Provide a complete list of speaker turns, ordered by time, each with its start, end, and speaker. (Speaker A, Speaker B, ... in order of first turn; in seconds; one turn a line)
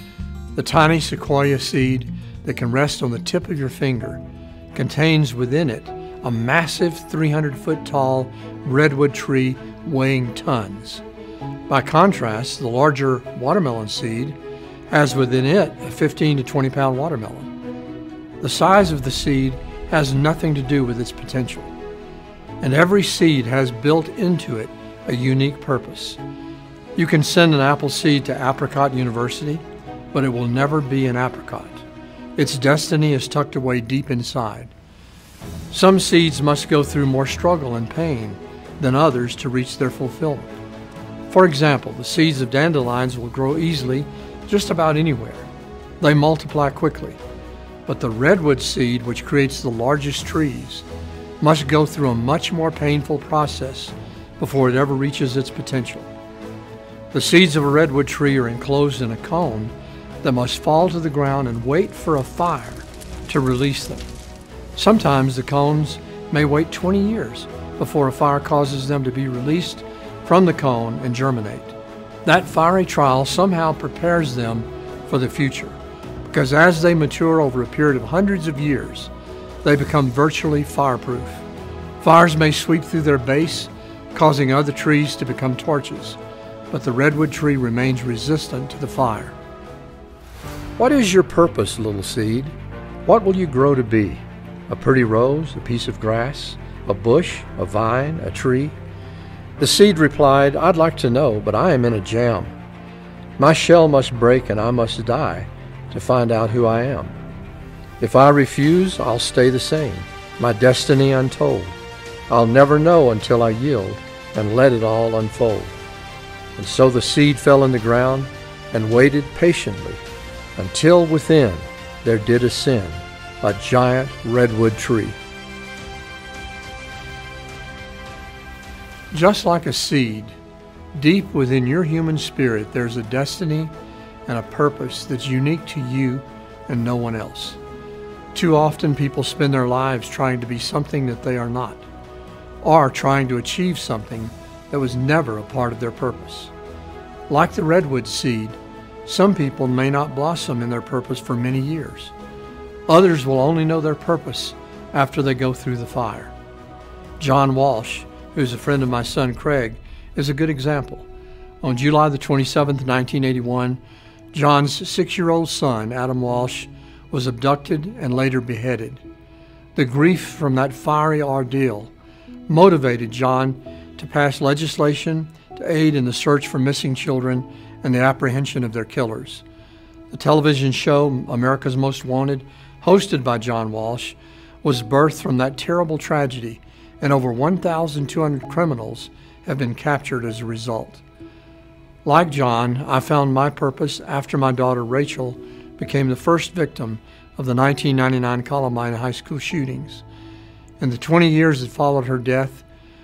Speaker A: 0.5-4.2
Speaker A: 4.7-11.0
Speaker A: 11.7-14.4
Speaker A: 14.9-17.5
Speaker A: 18.4-21.7
Speaker A: 22.6-26.2
Speaker A: 26.9-31.8
Speaker A: 32.4-34.7
Speaker A: 35.7-40.5
Speaker A: 41.3-45.5
Speaker A: 46.0-47.2
Speaker A: 47.9-50.9
Speaker A: 51.4-56.1
Speaker A: 57.1-64.1
Speaker A: 64.7-79.1
Speaker A: 79.6-81.4
Speaker A: 82.0-86.2
Speaker A: 86.7-89.3
Speaker A: 90.8-92.5
Speaker A: 93.0-98.8
Speaker A: 99.6-102.5
Speaker A: 103.4-107.1
Speaker A: 108.0-111.8
Speaker A: 112.3-115.8
Speaker A: 116.6-120.0
Speaker A: 120.6-125.2
Speaker A: 129.1-130.3
Speaker A: 130.9-133.7
Speaker A: 134.3-137.6
Speaker A: 138.3-141.9
Speaker A: 142.6-146.5
Speaker A: 147.3-152.1
Speaker A: 152.9-156.3
Speaker A: 157.2-161.1
Speaker A: 161.6-163.8
Speaker A: 164.3-169.0
Speaker A: 169.7-171.9
Speaker A: 172.5-179.4
Speaker A: 180.1-191.0
Speaker A: 192.0-200.0
Speaker A: 200.8-202.6